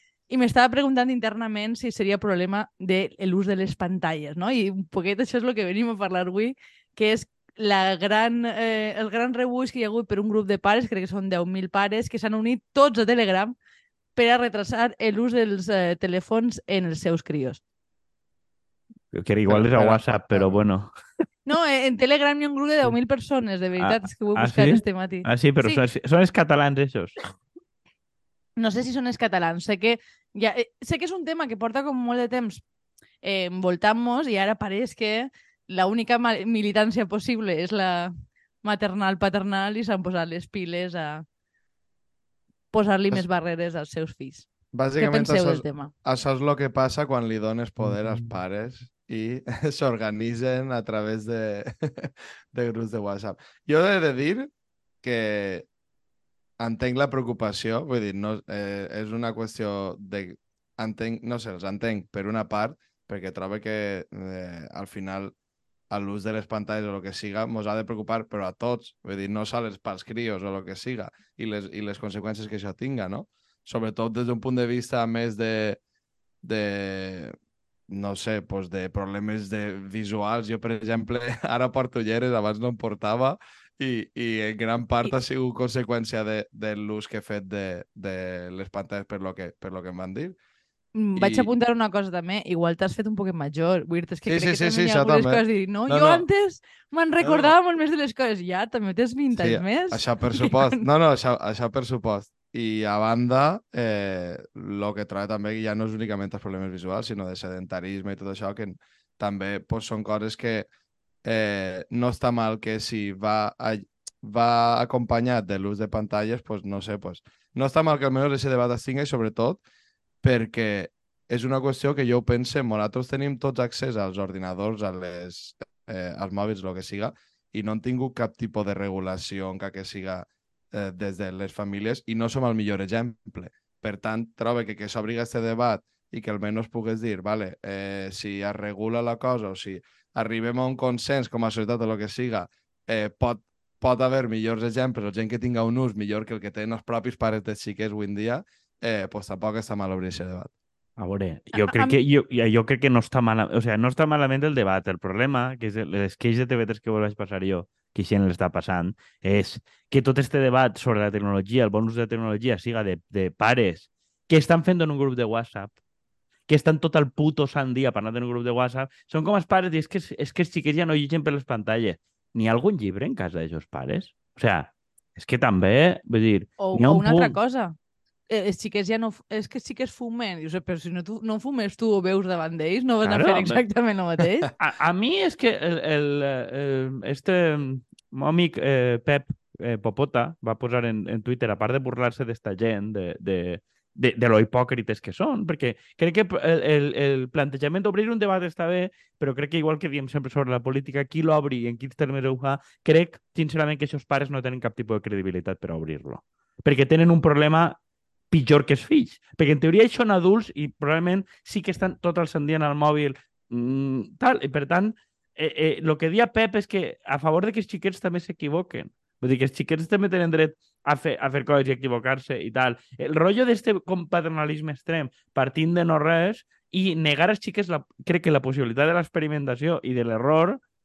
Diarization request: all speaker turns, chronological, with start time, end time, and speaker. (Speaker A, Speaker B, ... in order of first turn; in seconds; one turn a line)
Speaker A: 0.3-13.5
Speaker A: 14.2-17.6
Speaker B: 19.1-20.9
Speaker C: 19.5-20.6
Speaker A: 21.4-25.8
Speaker B: 23.8-27.2
Speaker A: 28.6-32.6
Speaker A: 33.2-41.2
Speaker A: 42.7-44.5
Speaker C: 44.7-54.5
Speaker A: 45.0-45.9
Speaker B: 47.9-48.3
Speaker C: 55.0-55.7
Speaker C: 56.6-65.3
Speaker C: 65.9-75.8
Speaker C: 76.4-77.3
Speaker C: 77.9-90.3
Speaker A: 90.9-100.8
Speaker C: 91.2-91.5
Speaker C: 94.3-96.2
Speaker C: 97.2-97.5
Speaker C: 99.4-110.7
Speaker C: 111.2-119.6
Speaker C: 120.2-150.5
Speaker B: 151.0-165.7
Speaker A: 151.5-151.9
Speaker B: 166.5-177.4
Speaker A: 176.6-177.7
Speaker A: 178.3-184.5
Speaker B: 183.0-183.6
Speaker B: 184.6-207.8
Speaker B: 208.3-230.6